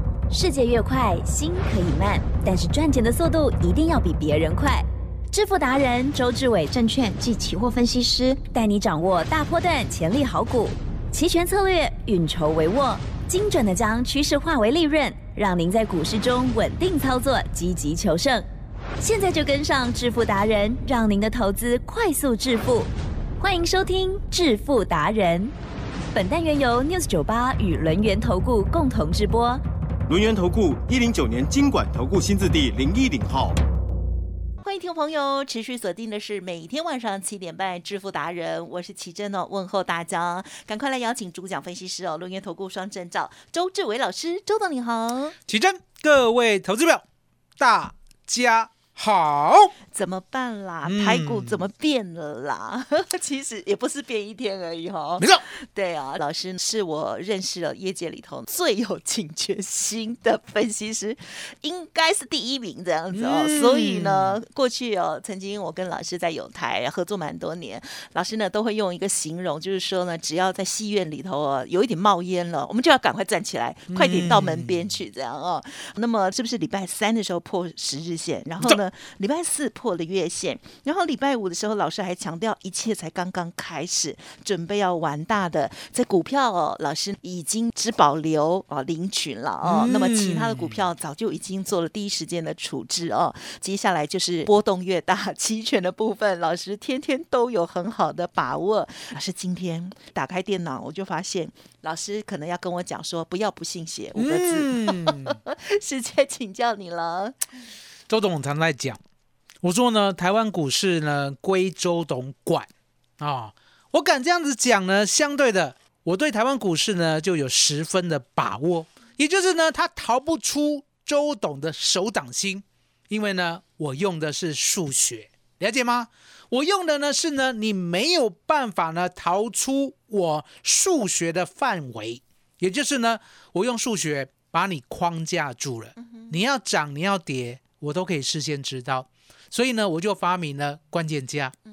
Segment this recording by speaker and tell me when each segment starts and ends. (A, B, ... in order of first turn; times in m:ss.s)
0:00.3-0:18.5 A
0:19.0-0:25.5 A
0:26.1-0:29.6 A
0:30.1-0:33.6 B
0:34.6-0:45.4 C
0:45.5-0:47.0 D
0:47.6-0:49.7 D
0:49.9-1:47.4 C
0:50.8-0:51.6 D
0:55.2-0:55.4 D
1:03.1-1:04.4 D
1:13.9-1:14.9 D
1:29.6-1:30.9 D
1:44.2-1:45.4 D
1:48.1-1:49.0 D
1:49.6-2:21.5 D
2:16.0-2:16.4 C